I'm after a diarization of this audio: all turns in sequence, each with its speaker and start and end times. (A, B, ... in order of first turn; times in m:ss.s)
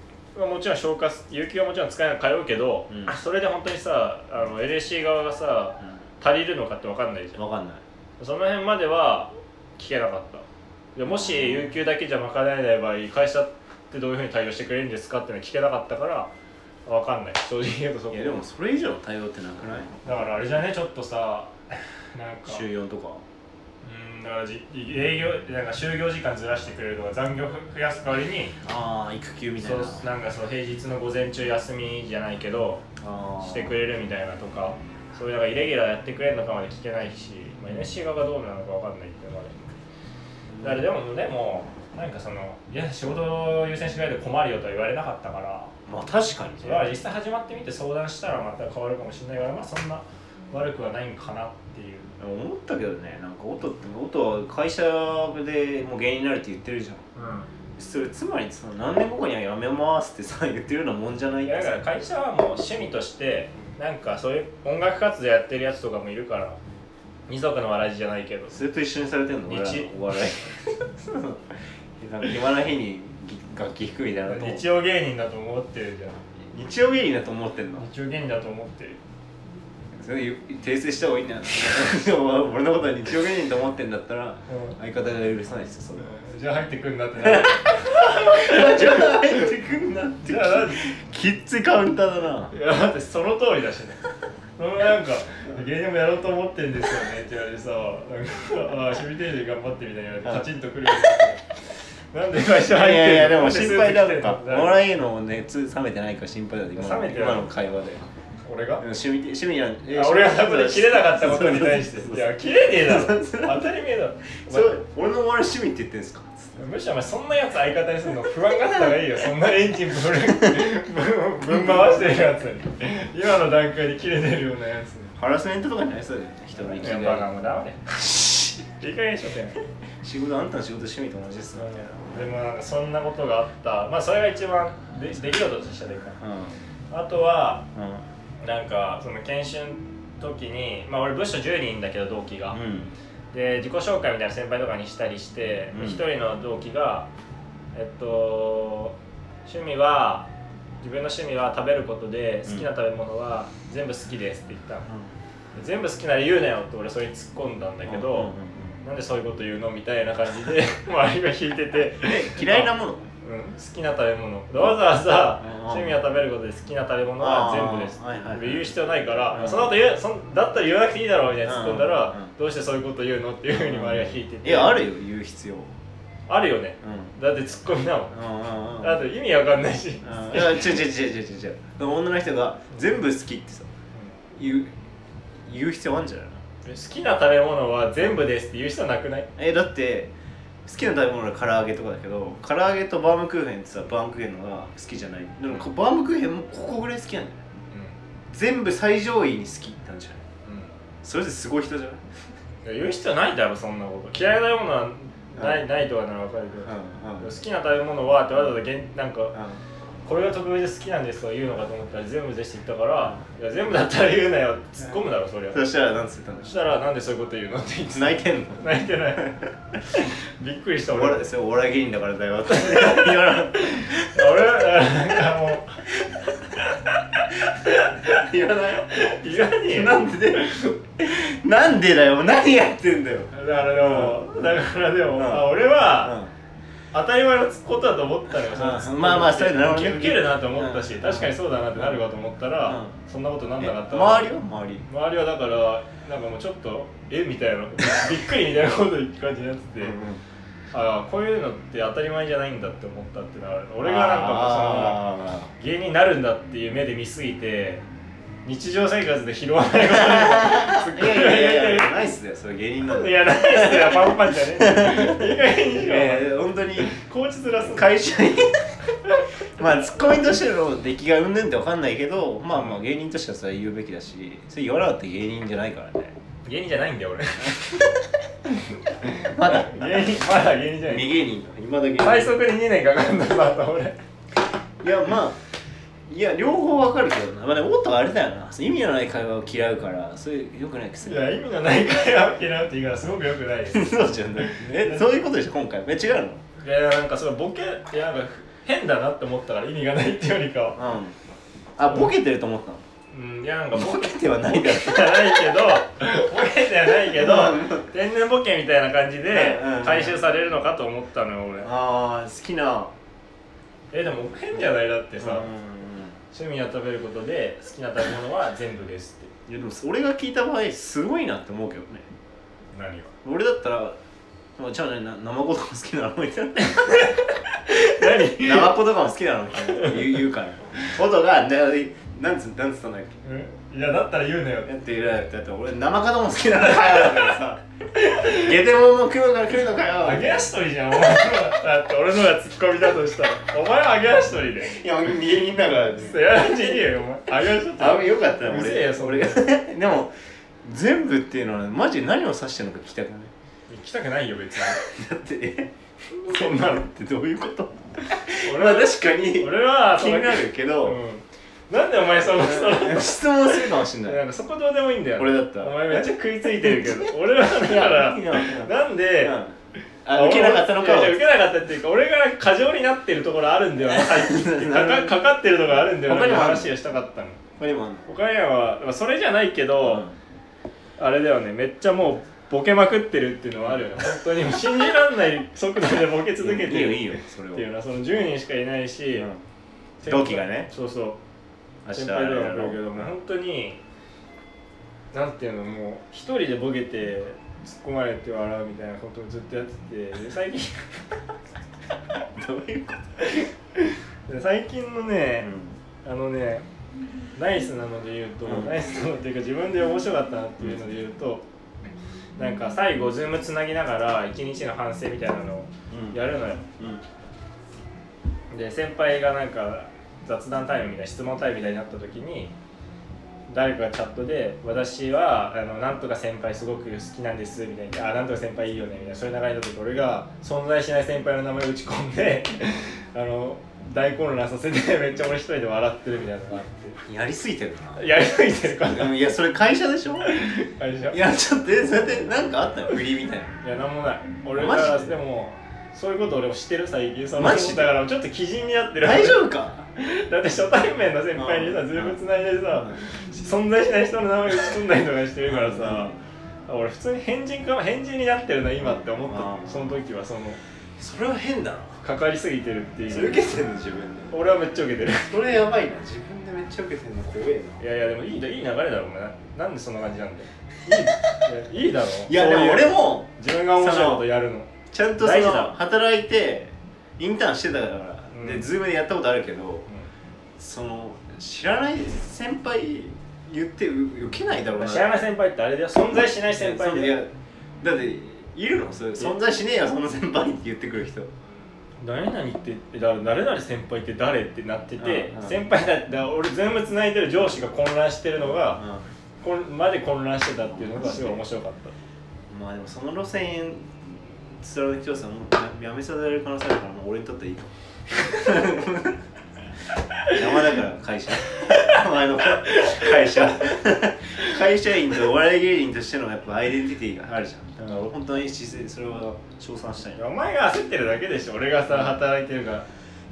0:00.4-0:07.4 A
0:02.9-0:03.1 B
0:07.4-0:07.8 B
0:08.2-0:16.3 A
0:11.1-0:11.7 B
0:16.9-0:18.4 A
0:18.1-0:19.9 B
0:20.0-0:22.6 A
0:22.5-0:23.2 B
0:23.8-0:28.6 A
0:28.6-0:30.1 B
0:29.6-0:32.8 A
0:33.0-0:33.8 B
0:33.4-0:39.7 A
0:40.5-0:40.8 B
0:40.6-0:45.7 A
0:45.9-0:47.0 B
0:46.6-0:52.1 A
0:52.2-0:57.0 B
0:57.2-0:57.5 A
0:57.8-1:01.8 B
1:01.4-1:06.6 A
1:07.3-1:08.6 A
1:08.5-1:14.6 B
1:09.5-1:09.9 A
1:14.3-1:16.2 A
1:16.5-1:17.9 B
1:17.8-1:19.0 A
1:20.0-1:26.1 B
1:24.5-1:24.8 A
1:26.0-1:29.5 A
1:27.2-1:32.5 B
1:30.2-1:30.8 A
1:32.5-1:34.0 A
1:34.6-1:41.4 A
1:42.1-1:44.8 A
1:42.6-1:48.0 B
1:46.8-1:47.5 A
1:48.4-1:48.8 A
1:48.8-1:53.6 B
1:49.9-1:54.8 A
1:54.5-1:56.6 B
1:56.6-2:05.1 A
2:01.6-2:01.9 B
2:05.2-2:07.3 B
2:06.6-2:07.8 A
2:07.9-2:08.7 B
2:08.8-2:09.6 A
2:10.0-2:12.2 B
2:11.6-2:16.2 A
2:16.2-2:16.6 B
2:16.9-2:17.7 A
2:17.7-2:18.0 B
2:18.4-2:22.6 A
2:22.5-2:22.9 B
2:23.3-2:27.1 A
2:25.7-2:26.0 B
2:27.7-2:30.3 A
2:30.8-2:34.9 A
2:35.6-2:54.8 A
2:37.9-2:38.8 B
2:42.0-2:43.1 B
2:45.4-2:46.0 B
2:47.2-2:49.8 B
2:51.4-2:52.3 B
2:53.5-2:55.7 B
2:56.3-2:58.2 A
2:56.8-2:57.1 B
2:58.1-2:59.0 B
2:58.8-3:00.8 A
3:00.0-3:03.7 B
3:04.4-3:04.7 B
3:05.5-3:06.4 B
3:06.6-3:09.3 A
3:09.4-3:10.1 B
3:10.6-3:17.4 B
3:18.3-3:20.2 B
3:20.5-3:20.7 A
3:21.0-3:22.0 B
3:22.6-3:29.4 A
3:25.4-3:25.7 B
3:26.7-3:27.3 B
3:29.3-3:29.6 B
3:30.0-3:35.6 A
3:35.5-3:36.5 B
3:36.4-3:41.3 A
3:37.9-3:38.6 B
3:40.9-3:44.2 B
3:42.5-3:45.9 A
3:46.6-3:48.2 A
3:47.7-3:54.4 B
3:48.8-3:50.1 A
3:53.3-3:56.2 A
3:55.2-3:56.3 B
3:56.9-4:04.3 A
3:58.4-4:02.0 B
4:02.6-4:03.0 B
4:03.6-4:04.9 B
4:04.8-4:10.0 A
4:09.8-4:10.2 B
4:10.7-4:17.8 A
4:13.8-4:15.5 B
4:18.4-4:22.0 A
4:19.9-4:26.9 B
4:22.9-4:27.9 A
4:27.6-4:28.8 B
4:29.6-4:36.2 B
4:36.4-4:37.8 A
4:37.5-4:37.8 B
4:38.5-4:41.1 A
4:39.2-4:40.3 B
4:40.8-4:42.4 B
4:42.0-4:44.0 A
4:44.8-4:45.4 B
4:46.1-4:51.3 B
4:51.0-4:55.1 A
4:53.7-4:56.4 B
4:56.6-5:00.8 A
5:00.8-5:01.2 B
5:01.8-5:02.8 B
5:03.1-5:11.7 A
5:03.7-5:05.5 B
5:07.1-5:07.9 B
5:09.3-5:10.2 B
5:11.6-5:13.0 B
5:13.9-5:15.5 A
5:15.2-5:16.2 B
5:16.3-5:19.3 A
5:19.5-5:22.1 B
5:22.7-5:23.1 A
5:23.2-5:24.0 B
5:24.6-5:27.3 B
5:26.8-5:28.7 A
5:28.0-5:33.2 B
5:29.7-5:30.1 A
5:33.2-5:34.7 A
5:34.6-5:37.6 B
5:38.0-5:38.5 A
5:38.2-5:40.4 B
5:40.0-5:44.8 A
5:44.6-5:46.8 B
5:46.0-5:49.5 A
5:47.8-5:50.1 B
5:50.6-5:53.3 B
5:53.7-5:54.8 A
5:54.8-6:01.0 B
5:56.3-5:56.8 A
5:58.4-6:03.2 A
6:02.2-6:04.2 B
6:04.0-6:09.4 A
6:05.2-6:11.3 B
6:10.1-6:17.4 A
6:13.8-6:15.2 B
6:16.0-6:16.7 B
6:17.6-6:18.1 B
6:18.1-6:20.1 A
6:19.8-6:20.2 B
6:21.0-6:29.3 A
6:26.4-6:27.7 B
6:29.2-6:29.4 B
6:30.0-6:31.2 A
6:30.1-6:30.7 B
6:31.8-6:33.0 B
6:31.9-6:33.8 A
6:35.1-6:41.0 A
6:42.4-6:43.2 B
6:43.2-6:45.5 A
6:45.4-6:45.8 B
6:46.0-6:46.7 A
6:47.4-6:51.4 A
6:48.4-6:48.8 B
6:52.4-6:56.6 A
6:55.9-6:56.2 B
6:56.8-6:57.0 B
6:58.5-7:02.5 A
7:03.5-7:17.0 A
7:17.0-7:18.0 B
7:18.0-7:19.2 A
7:18.8-7:20.5 B
7:20.2-7:21.2 A
7:21.1-7:23.6 B
7:23.6-7:29.4 A
7:24.6-7:25.1 B
7:27.4-7:27.9 B
7:29.0-7:29.9 B
7:30.0-7:36.2 A
7:31.4-7:32.2 B
7:35.5-7:36.2 B
7:36.7-7:40.6 A
7:38.9-7:40.0 B
7:41.0-7:42.0 B
7:42.0-7:43.4 A
7:43.1-7:44.4 B
7:44.3-7:45.4 A
7:45.3-7:47.8 B
7:47.8-7:55.8 A
7:52.2-7:54.3 B
7:54.9-7:59.9 B
7:58.3-7:58.7 A
8:00.6-8:05.1 B
8:04.8-8:07.2 A
8:06.4-8:11.3 B
8:12.0-8:18.8 A
8:15.0-8:15.6 B
8:18.8-8:19.0 B
8:19.4-8:21.9 A
8:20.8-8:21.4 B
8:22.5-8:29.2 B
8:30.3-8:40.2 B
8:31.6-8:32.0 A
8:32.6-8:33.4 A
8:40.2-8:42.9 A